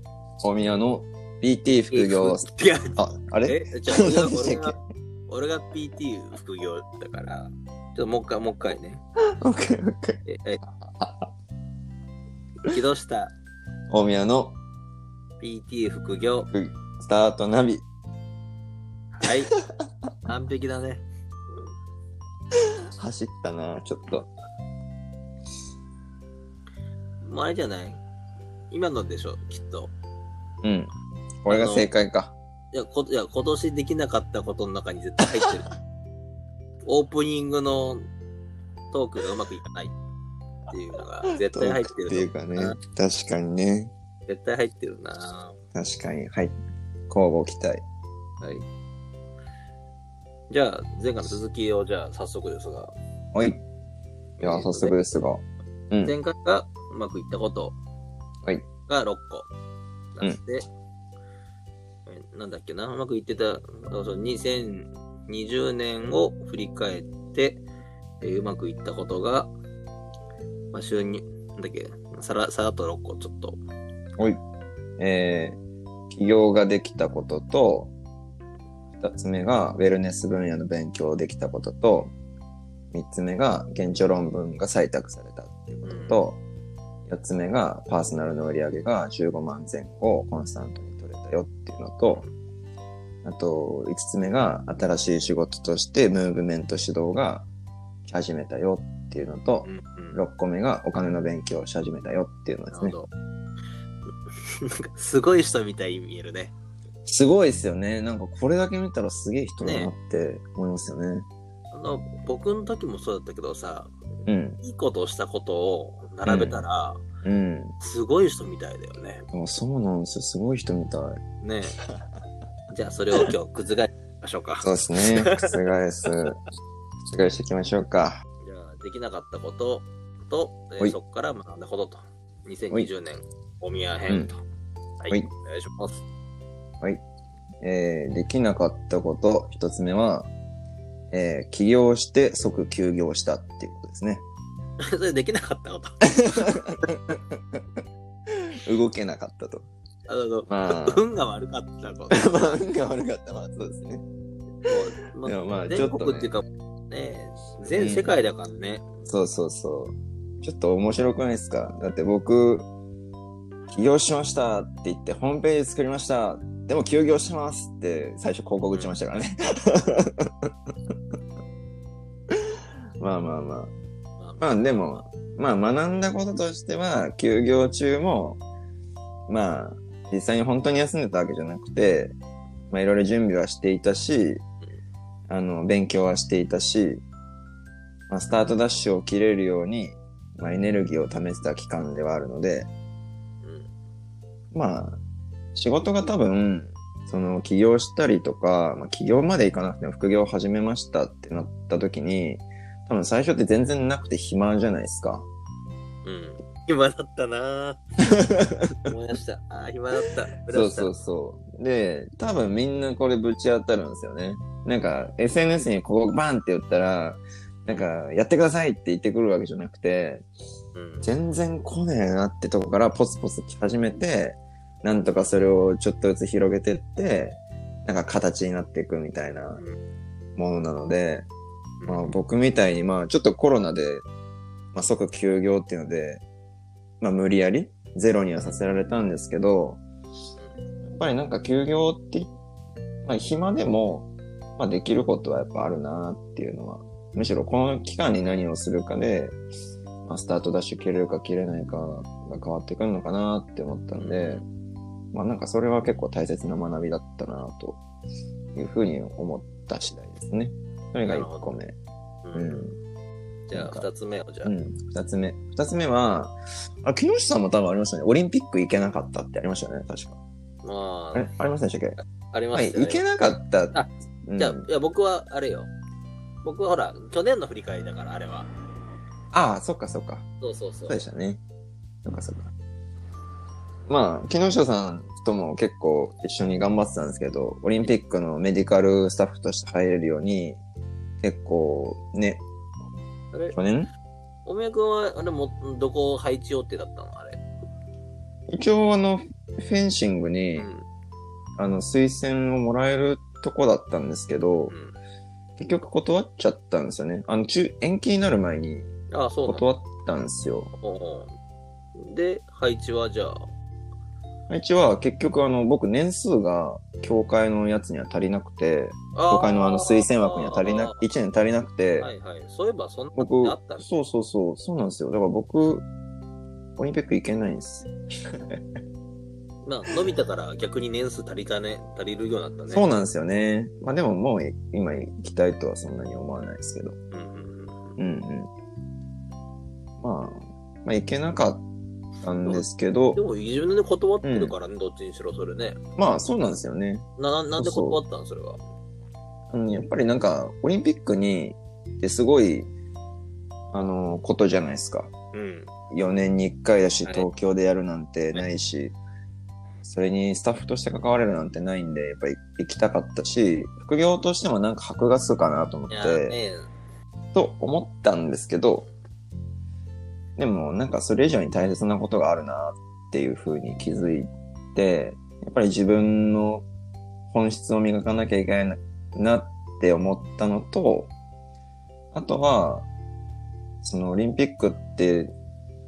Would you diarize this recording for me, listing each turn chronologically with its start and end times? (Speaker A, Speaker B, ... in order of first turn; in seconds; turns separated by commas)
Speaker A: 0.4-4.8, Speaker B: 1.9-4.8, Speaker B: 5.3-9.0, Speaker A: 9.4-10.2, Speaker B: 10.2-10.6, Speaker A: 11.0-11.3, Speaker B: 12.6-13.3, Speaker A: 13.9-14.6, Speaker B: 15.4-16.5, Speaker A: 16.5-17.8, Speaker B: 19.1-19.5, Speaker B: 20.2-21.0, Speaker A: 23.0-24.3, Speaker B: 27.2-28.0, Speaker B: 28.7-29.9, Speaker A: 30.6-30.9, Speaker A: 31.4-32.3, Speaker B: 31.5-31.9, Speaker B: 32.7-35.7, Speaker B: 36.8-38.0, Speaker B: 38.9-39.9, Speaker B: 40.7-42.8, Speaker A: 41.4-43.9, Speaker B: 44.3-45.5, Speaker A: 45.7-46.5, Speaker A: 47.1-47.8, Speaker B: 50.5-52.9, Speaker A: 53.3-53.6, Speaker B: 54.4-55.0, Speaker A: 54.4-56.1, Speaker B: 56.0-57.8, Speaker B: 58.9-59.5, Speaker B: 60.1-60.6, Speaker B: 62.0-67.6, Speaker B: 68.2-69.5, Speaker B: 70.7-73.6, Speaker A: 75.0-75.6, Speaker A: 76.1-77.9, Speaker A: 79.0-82.1, Speaker A: 82.9-86.4, Speaker B: 85.8-86.2, Speaker A: 87.1-92.2, Speaker A: 93.2-97.5, Speaker A: 98.1-103.0, Speaker B: 99.6-100.2, Speaker B: 102.7-103.1, Speaker B: 104.4-106.5, Speaker A: 107.0-111.3, Speaker B: 109.6-109.9, Speaker B: 111.7-113.9, Speaker A: 114.2-114.6, Speaker B: 114.6-117.0, Speaker A: 116.2-116.7, Speaker A: 117.2-117.7, Speaker B: 117.8-119.2, Speaker A: 119.3-121.2, Speaker B: 121.4-121.8, Speaker B: 122.7-124.7, Speaker A: 124.6-126.3, Speaker A: 127.1-128.2, Speaker B: 128.4-134.4, Speaker B: 135.0-136.0, Speaker A: 137.6-140.3, Speaker A: 141.1-144.2, Speaker B: 144.8-146.6, Speaker A: 146.2-147.6, Speaker A: 148.6-149.7, Speaker B: 150.1-152.6, Speaker A: 150.5-151.0, Speaker A: 152.1-154.0, Speaker B: 154.6-158.8, Speaker A: 155.2-156.3, Speaker A: 157.7-158.2, Speaker A: 159.1-162.7, Speaker A: 163.7-170.5, Speaker A: 173.0-173.7, Speaker B: 174.2-174.8, Speaker A: 174.4-178.4, Speaker A: 179.3-182.2, Speaker A: 182.7-184.4, Speaker A: 185.3-187.0, Speaker A: 188.1-192.7, Speaker B: 193.4-193.7, Speaker A: 194.5-195.0, Speaker A: 195.5-205.3, Speaker B: 206.0-207.8, Speaker A: 208.0-208.7, Speaker B: 208.8-210.9, Speaker A: 210.5-220.2, Speaker B: 220.7-221.1, Speaker A: 221.0-229.6, Speaker A: 230.4-231.3, Speaker B: 231.8-232.2, Speaker A: 231.8-234.0, Speaker A: 234.7-236.2, Speaker A: 237.0-239.8, Speaker A: 240.8-242.3, Speaker A: 243.0-249.4, Speaker A: 250.1-254.4, Speaker B: 253.9-254.4, Speaker A: 255.1-257.8, Speaker A: 258.6-261.8, Speaker B: 261.1-261.5, Speaker B: 262.2-262.7, Speaker A: 262.3-262.8, Speaker B: 263.5-264.5, Speaker A: 263.5-263.9, Speaker A: 264.4-270.2, Speaker B: 270.6-271.3, Speaker A: 271.1-272.0, Speaker B: 272.0-273.1, Speaker A: 272.5-274.6, Speaker B: 273.7-275.7, Speaker B: 276.4-278.5, Speaker A: 279.3-280.2, Speaker B: 280.4-281.0, Speaker A: 280.9-281.4, Speaker A: 282.0-282.5, Speaker A: 283.9-290.6, Speaker A: 291.2-292.4, Speaker B: 293.3-293.6, Speaker A: 293.5-293.9, Speaker B: 294.4-297.4, Speaker A: 298.5-300.7, Speaker B: 300.6-300.8, Speaker A: 301.6-304.7, Speaker B: 304.7-304.9, Speaker A: 305.6-308.9, Speaker B: 309.1-309.6, Speaker A: 309.4-310.7, Speaker B: 310.8-311.3, Speaker B: 312.0-313.5, Speaker A: 314.5-322.1, Speaker B: 319.1-321.0, Speaker B: 322.0-323.9, Speaker A: 323.1-325.9, Speaker A: 326.8-328.6, Speaker B: 329.6-333.0, Speaker A: 332.7-337.0, Speaker B: 337.1-338.0, Speaker A: 338.0-338.5, Speaker A: 340.0-341.6, Speaker A: 342.2-343.2, Speaker B: 342.4-345.8, Speaker A: 344.2-344.6, Speaker A: 346.0-347.1, Speaker B: 347.2-348.6, Speaker A: 347.6-348.0, Speaker A: 349.5-352.7, Speaker A: 353.7-355.1, Speaker B: 355.3-355.7, Speaker A: 355.9-358.9, Speaker A: 359.8-366.4, Speaker B: 365.9-366.7, Speaker A: 367.3-368.9, Speaker A: 370.4-376.6, Speaker A: 377.3-381.1, Speaker A: 382.1-382.9, Speaker A: 383.8-385.3